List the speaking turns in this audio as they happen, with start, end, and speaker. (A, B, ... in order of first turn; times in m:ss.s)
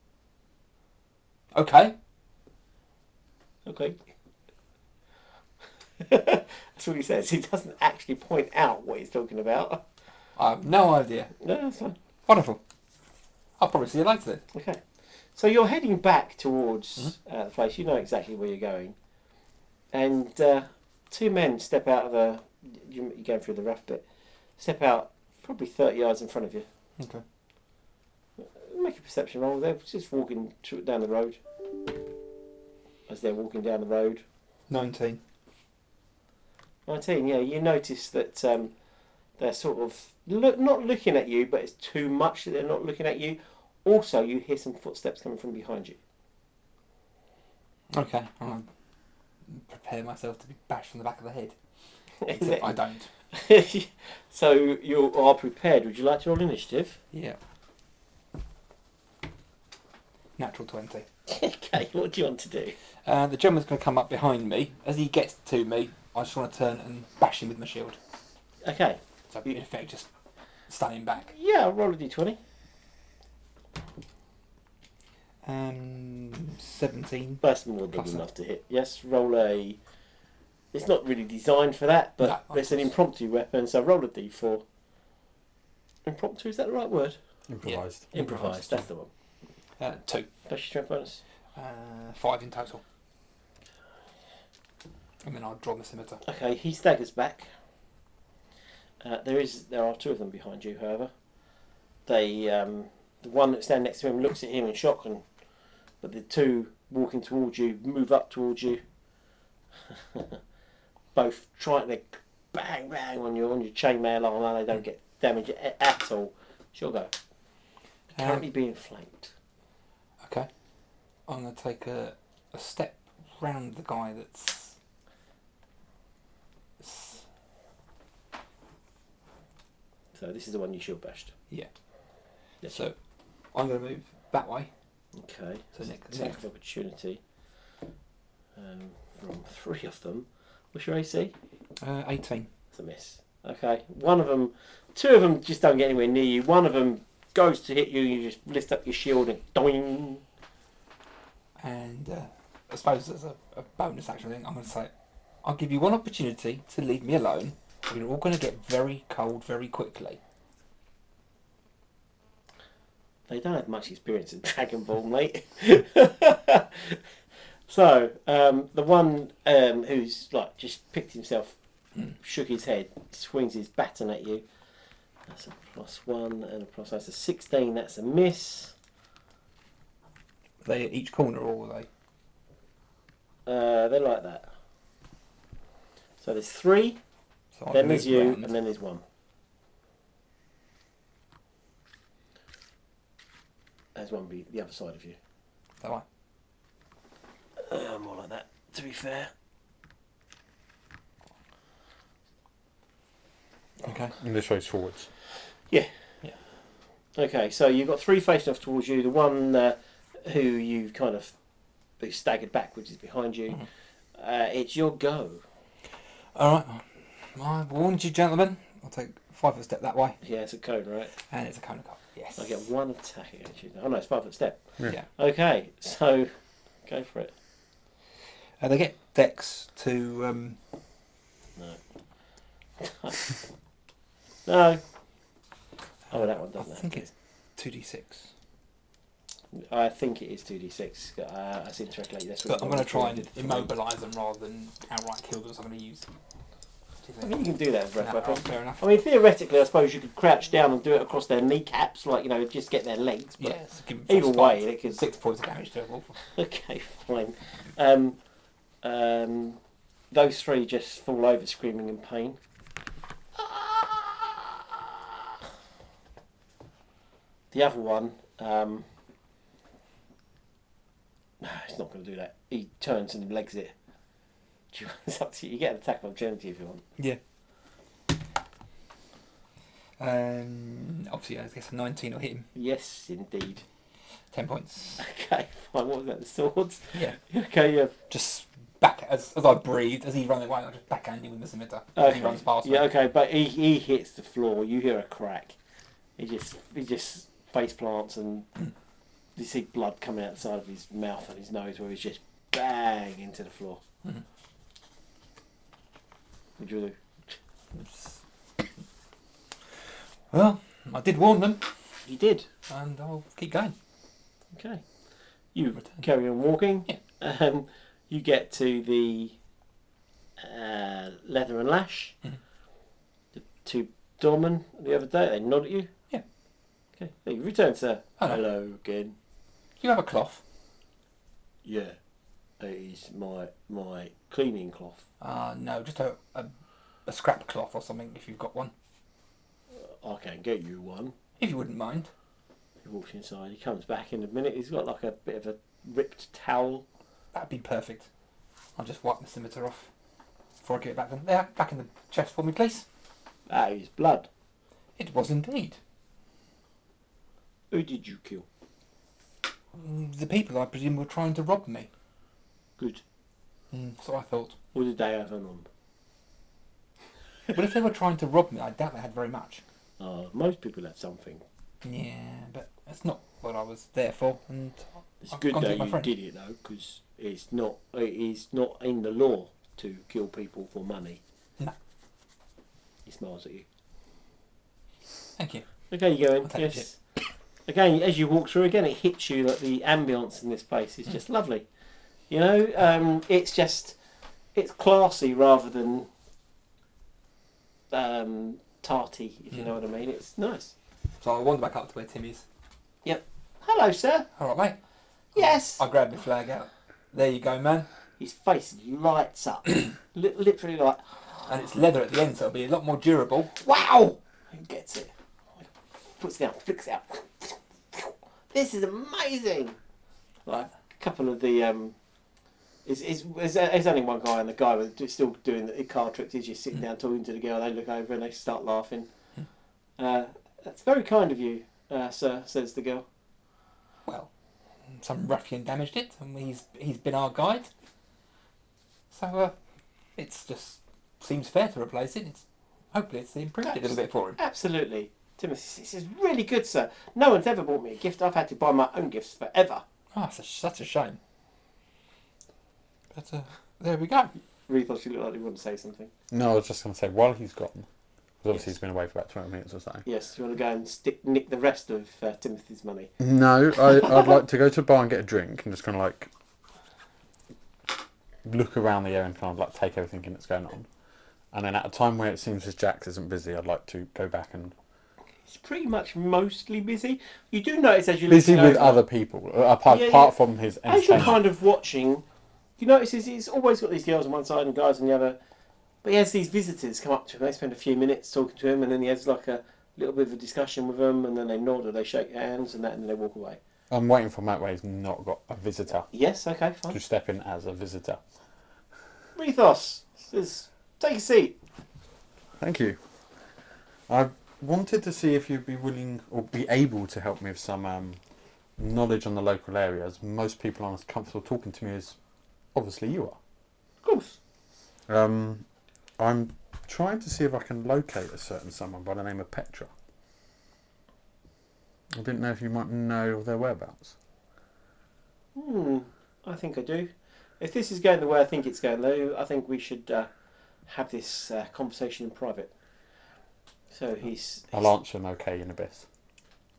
0:01.5-0:02.0 A
0:03.6-0:04.0 B
0:06.0-0:09.8 B
0:10.4-0:11.3 A
0:11.4-0:12.0 B
0:12.3-0:12.6 A
0:13.6-0:14.4 A
0:14.5-0:14.8 B
0:15.3-0:19.0 B
0:19.9-0:24.0 B
0:24.6-0:26.7 B
0:27.0-0:27.2 A
0:28.4-0:31.4 B
0:33.1-0:34.2 B
0:34.7-0:35.2 A
0:36.9-0:38.7 B
0:39.4-0:46.0 B
0:47.9-0:48.7 A
0:49.5-0:51.5 A
0:52.2-0:52.7 B
0:52.3-0:53.1 A
0:53.3-0:57.0 B
0:57.1-0:57.4 A
1:00.4-1:01.0 A
1:01.3-1:02.7 B
1:03.0-1:08.0 A
1:08.6-1:09.0 B
1:09.3-1:10.1 A
1:10.7-1:11.3 A
1:11.3-1:12.4 B
1:15.4-1:17.4 A
1:17.4-1:19.8 B
1:17.9-1:18.2 A
1:20.7-1:24.6 B
1:22.2-1:22.9 A
1:26.0-1:27.2 B
1:27.5-1:28.8 C
1:28.1-1:29.1 B
1:29.8-1:30.3 A
1:30.4-1:31.2 B
1:31.6-1:32.8 A
1:35.2-1:36.2 A
1:36.2-1:37.5 B
1:39.0-1:41.1 B
1:42.1-1:45.2 B
1:46.0-1:48.8 B
1:50.1-1:50.4 B
1:51.1-1:57.1 B
1:58.2-1:58.4 A
1:58.2-1:59.3 B
2:00.2-2:00.5 A
2:01.3-2:04.7 A
2:06.8-2:07.2 A
2:10.1-2:11.3 B
2:12.7-2:12.9 A
2:13.5-2:14.7 A
2:15.1-2:17.2 B
2:15.8-2:16.4 A
2:18.6-2:21.3 B
2:21.8-2:22.5 A
2:22.7-2:30.2 B
2:31.6-2:34.9 A
2:35.4-2:40.2 A
2:43.3-2:47.0 B
2:47.7-2:51.6 B
2:52.2-2:54.4 B
2:55.3-2:58.7 B
3:00.6-3:01.9 A
3:03.4-3:04.5 B
3:06.2-3:07.0 B
3:07.6-3:08.5 A
3:07.7-3:09.0 B
3:13.9-3:15.2 B
3:17.6-3:19.3 B
3:23.8-3:24.1 A
3:24.2-3:25.1 C
3:27.2-3:31.3 B
3:32.0-3:33.6 B
3:34.2-3:35.4 B
3:36.3-3:40.2 A
3:40.2-3:41.1 B
3:41.3-3:42.5 A
3:42.4-3:44.6 B
3:45.2-3:46.3 B
3:46.8-3:47.3 B
3:48.6-3:50.6 A
3:52.8-3:53.3 B
3:54.4-3:54.8 B
3:56.1-3:57.1 B
3:56.6-3:57.0 A
3:57.6-3:58.3 A
3:59.5-4:03.7 B
4:02.4-4:06.1 A
4:07.0-4:07.4 A
4:07.2-4:15.0 B
4:08.0-4:08.8 A
4:13.4-4:16.2 A
4:16.3-4:18.2 B
4:18.8-4:19.6 B
4:20.1-4:22.4 B
4:23.4-4:24.5 B
4:27.5-4:28.8 B
4:31.4-4:33.7 B
4:34.7-4:36.8 B
4:40.0-4:42.5 A
4:42.5-4:43.6 B
4:44.3-4:45.0 A
4:45.0-4:47.9 B
4:48.1-4:52.9 A
4:52.0-4:55.6 B
4:56.2-4:58.5 B
4:59.4-5:03.8 B
5:06.6-5:07.4 B
5:07.7-5:08.2 A
5:10.3-5:11.7 A
5:12.0-5:12.5 B
5:12.7-5:13.7 A
5:14.5-5:14.8 B
5:15.5-5:19.4 B
5:20.4-5:22.2 B
5:23.3-5:25.9 B
5:27.0-5:29.2 B
5:29.8-5:30.4 A
5:31.6-5:32.0 B
5:32.6-5:35.0 B
5:35.2-5:36.5 A
5:37.0-5:38.7 A
5:39.8-5:41.1 B
5:41.4-5:42.1 A
5:42.8-5:46.8 B
5:47.3-5:48.1 A
5:48.8-5:49.9 A
5:50.6-5:52.8 A
5:53.5-5:54.3 B
5:55.0-5:55.8 A
5:57.7-5:58.4 B
5:59.7-6:01.9 A
6:03.7-6:04.6 A
6:04.7-6:05.7 B
6:07.5-6:09.6 A
6:10.0-6:11.4 B
6:11.8-6:16.1 A
6:15.2-6:21.2 B
6:23.0-6:23.6 B
6:25.4-6:25.7 A
6:25.9-6:27.0 B
6:26.4-6:26.8 A
6:27.6-6:31.6 B
6:32.3-6:34.0 B
6:34.5-6:36.1 B
6:37.9-6:40.7 B
6:41.2-6:42.4 A
6:43.0-6:44.3 B
6:44.4-6:44.8 A
6:45.3-6:45.8 B
6:45.3-6:47.9 A
6:48.2-6:51.4 B
6:51.4-6:53.7 A
6:53.6-6:55.1 B
6:56.2-6:59.8 B
7:00.4-7:02.0 B
7:02.8-7:09.1 B
7:10.0-7:13.0 B
7:14.9-7:17.7 A
7:19.1-7:19.5 A
7:20.2-7:24.4 A
7:23.6-7:29.8 B
7:30.1-7:31.2 A
7:33.1-7:34.3 A
7:34.7-7:36.1 B
7:36.3-7:37.9 C
7:38.4-7:40.0 C
7:40.0-7:43.1 B
7:43.2-7:46.3 C
7:48.4-7:50.9 C
7:51.5-7:54.7 C
7:55.4-7:59.0 B
7:58.3-8:01.4 C
7:59.8-8:02.2 B
8:02.8-8:05.4 B
8:06.0-8:13.6 B
8:13.9-8:16.1 C
8:16.1-8:17.0 B
8:16.9-8:18.2 C
8:19.4-8:21.6 B
8:22.6-8:23.0 C
8:24.1-8:28.2 C
8:28.8-8:32.2 C
8:32.7-8:33.4 C
8:34.0-8:34.4 B
8:35.1-8:35.6 C
8:36.2-8:39.9 C
8:42.1-8:44.1 C
8:45.5-8:50.3 B
8:50.9-8:52.7 B
8:53.9-8:54.9 B
8:54.7-8:56.0 C